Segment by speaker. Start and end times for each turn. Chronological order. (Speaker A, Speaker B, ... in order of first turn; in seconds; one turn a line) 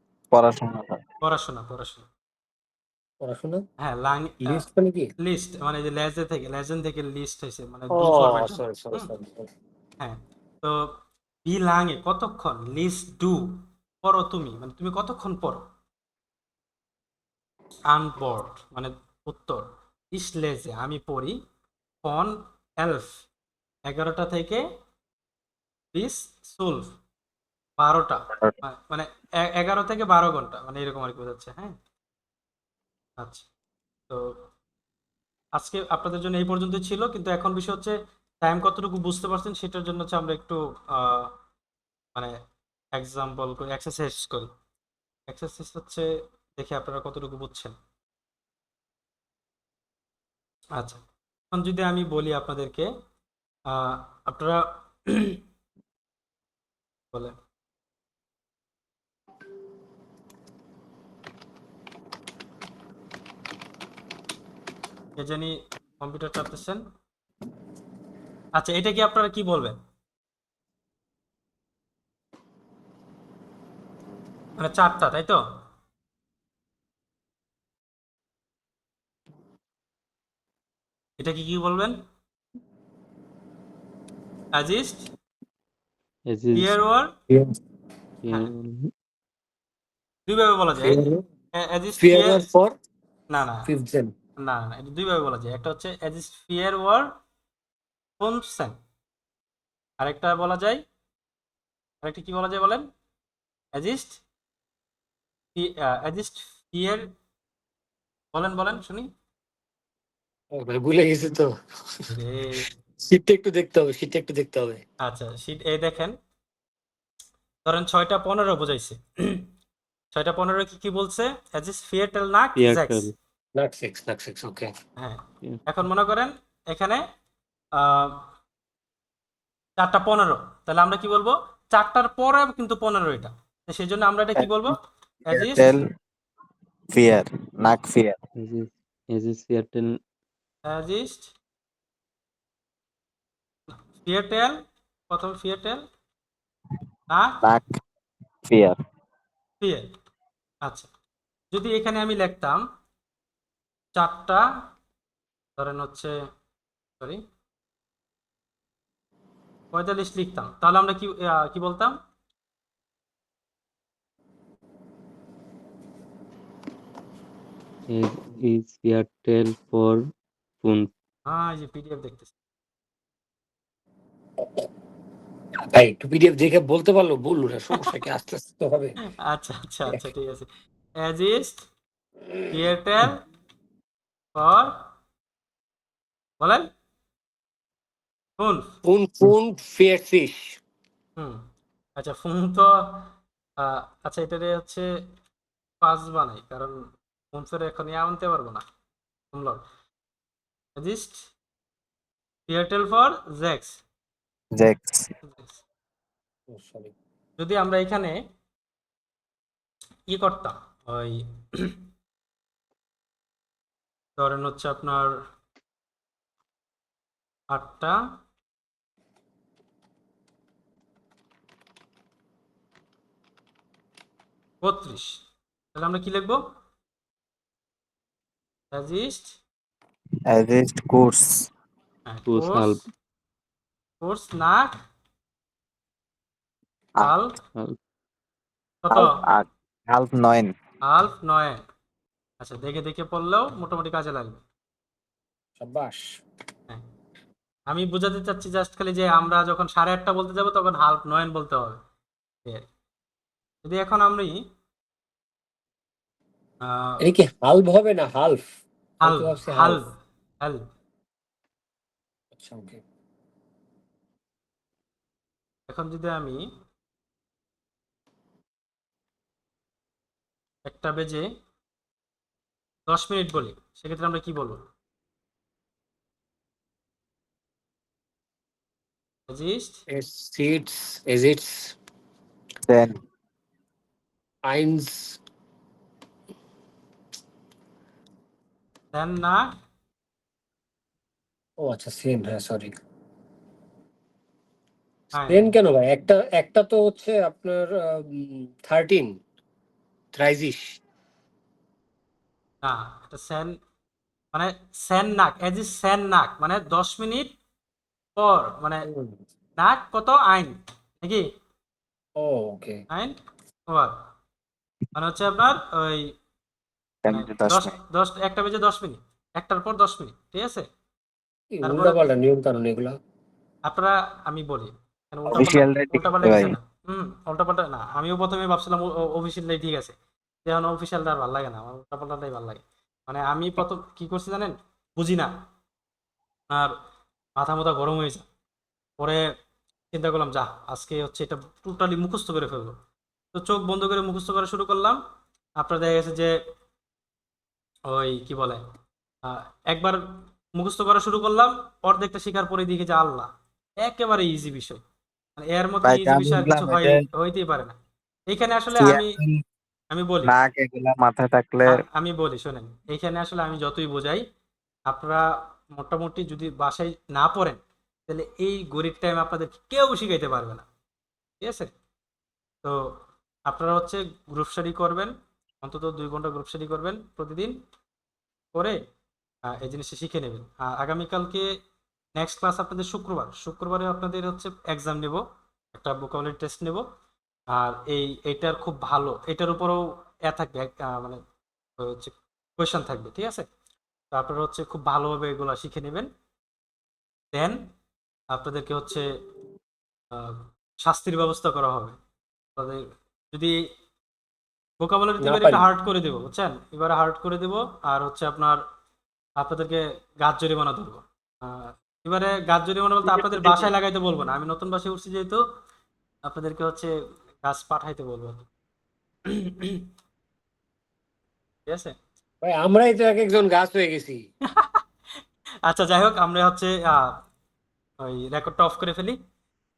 Speaker A: 0.3-1.0
Speaker B: 1.2-2.0
Speaker C: 3.2-3.6
Speaker B: 3.8-4.6
Speaker C: 4.4-5.1
Speaker B: 5.2-9.1
Speaker C: 7.9-9.5
Speaker B: 10.0-10.9
Speaker B: 11.4-15.6
Speaker B: 17.9-21.4
Speaker B: 22.0-23.2
Speaker B: 23.9-24.6
Speaker B: 25.9-26.9
Speaker B: 27.8-31.8
Speaker B: 33.2-33.4
Speaker B: 35.5-41.3
Speaker B: 42.9-44.5
Speaker B: 45.3-47.8
Speaker B: 50.8-52.9
Speaker B: 53.7-55.4
Speaker B: 65.2-66.8
Speaker B: 68.5-69.8
Speaker B: 74.6-75.4
Speaker B: 81.2-82.0
Speaker B: 84.5-85.1
Speaker D: 86.3-86.8
Speaker B: 86.5-87.1
Speaker D: 88.2-88.9
Speaker B: 90.3-92.5
Speaker C: 90.8-91.2
Speaker C: 92.0-92.7
Speaker B: 93.3-93.7
Speaker C: 93.7-94.1
Speaker B: 94.4-97.1
Speaker B: 98.2-98.8
Speaker B: 100.0-100.8
Speaker B: 102.0-102.9
Speaker B: 103.7-104.2
Speaker B: 105.5-107.1
Speaker B: 108.3-109.1
Speaker C: 110.5-112.1
Speaker B: 112.1-112.7
Speaker C: 113.0-114.8
Speaker B: 115.0-116.2
Speaker B: 117.7-119.5
Speaker B: 120.1-123.1
Speaker D: 122.6-123.1
Speaker C: 123.5-124.7
Speaker B: 125.0-127.0
Speaker B: 127.7-128.2
Speaker B: 129.8-135.7
Speaker A: 134.4-134.6
Speaker A: 135.3-135.8
Speaker A: 136.9-138.2
Speaker D: 138.4-140.0
Speaker B: 140.7-141.3
Speaker B: 144.0-144.6
Speaker B: 145.1-145.8
Speaker B: 147.1-147.4
Speaker A: 147.4-147.8
Speaker A: 148.5-148.8
Speaker B: 149.6-149.9
Speaker B: 150.6-150.9
Speaker B: 151.5-152.6
Speaker B: 153.9-154.4
Speaker B: 155.6-156.2
Speaker B: 159.7-162.0
Speaker D: 167.9-170.1
Speaker D: 170.6-170.9
Speaker B: 171.3-172.3
Speaker C: 175.7-179.0
Speaker B: 179.2-180.5
Speaker B: 181.0-181.6
Speaker B: 182.5-183.2
Speaker B: 184.3-184.7
Speaker B: 186.4-186.7
Speaker B: 188.4-188.7
Speaker C: 188.8-190.6
Speaker B: 191.2-191.4
Speaker B: 191.9-194.9
Speaker B: 195.8-196.8
Speaker B: 197.3-198.6
Speaker B: 199.3-199.6
Speaker B: 200.8-201.3
Speaker B: 202.5-203.8
Speaker A: 204.5-205.1
Speaker B: 205.2-205.6
Speaker C: 206.5-206.9
Speaker B: 207.4-208.2
Speaker B: 210.1-211.8
Speaker B: 214.2-215.1
Speaker B: 217.5-218.0
Speaker B: 224.6-225.2
Speaker B: 225.7-226.4
Speaker B: 228.7-229.4
Speaker A: 230.3-231.5
Speaker B: 232.1-232.8
Speaker D: 232.3-232.9
Speaker B: 234.0-234.7
Speaker B: 237.0-237.4
Speaker B: 238.8-239.1
Speaker A: 238.9-240.5
Speaker B: 240.9-241.6
Speaker B: 242.4-244.4
Speaker C: 245.6-246.1
Speaker B: 247.7-251.8
Speaker B: 253.6-254.4
Speaker B: 256.6-257.1
Speaker C: 257.0-258.5
Speaker B: 259.0-259.9
Speaker C: 259.0-259.8
Speaker C: 262.3-262.8
Speaker B: 265.7-266.5
Speaker B: 270.6-271.3
Speaker B: 272.9-274.6
Speaker B: 279.3-279.8
Speaker C: 279.9-281.8
Speaker A: 282.7-283.0
Speaker C: 284.4-285.2
Speaker B: 288.9-289.4
Speaker C: 291.6-292.7
Speaker B: 295.1-295.5
Speaker C: 295.3-299.2
Speaker C: 300.1-300.8
Speaker B: 302.6-303.6
Speaker B: 304.3-307.3
Speaker B: 308.1-308.9
Speaker C: 308.9-309.2
Speaker B: 309.6-311.2
Speaker C: 312.2-312.8
Speaker B: 312.9-313.2
Speaker B: 313.7-313.9
Speaker B: 314.9-316.1
Speaker A: 317.0-317.8
Speaker B: 317.1-320.7
Speaker C: 321.5-322.9
Speaker B: 321.6-322.0
Speaker B: 323.7-329.9
Speaker A: 325.3-326.6
Speaker B: 330.4-335.3
Speaker B: 336.5-336.7
Speaker B: 337.4-338.2
Speaker B: 339.0-339.3
Speaker B: 339.9-342.8
Speaker B: 343.3-345.0
Speaker B: 345.6-346.4
Speaker B: 347.9-348.6
Speaker B: 349.2-350.0
Speaker B: 350.5-353.3
Speaker B: 353.8-354.8
Speaker B: 355.4-357.7
Speaker A: 355.8-357.0
Speaker B: 358.3-359.2
Speaker A: 358.7-359.4
Speaker B: 359.9-360.3
Speaker A: 360.2-361.8
Speaker B: 361.7-364.2
Speaker B: 364.9-370.6
Speaker B: 371.4-371.7
Speaker B: 372.6-372.9
Speaker B: 373.5-377.6
Speaker B: 379.5-381.5
Speaker B: 382.2-386.9
Speaker B: 387.5-391.2
Speaker B: 391.8-393.4
Speaker B: 394.1-396.1
Speaker B: 397.3-397.7
Speaker B: 398.3-399.1
Speaker B: 400.1-401.9
Speaker B: 402.6-403.6
Speaker B: 404.8-408.6
Speaker C: 405.2-405.6
Speaker B: 409.4-415.4
Speaker C: 413.1-413.7
Speaker B: 416.2-418.5
Speaker B: 419.3-419.8
Speaker B: 421.7-421.9
Speaker C: 422.4-424.2
Speaker B: 424.5-424.8
Speaker B: 425.6-427.2
Speaker B: 428.0-429.2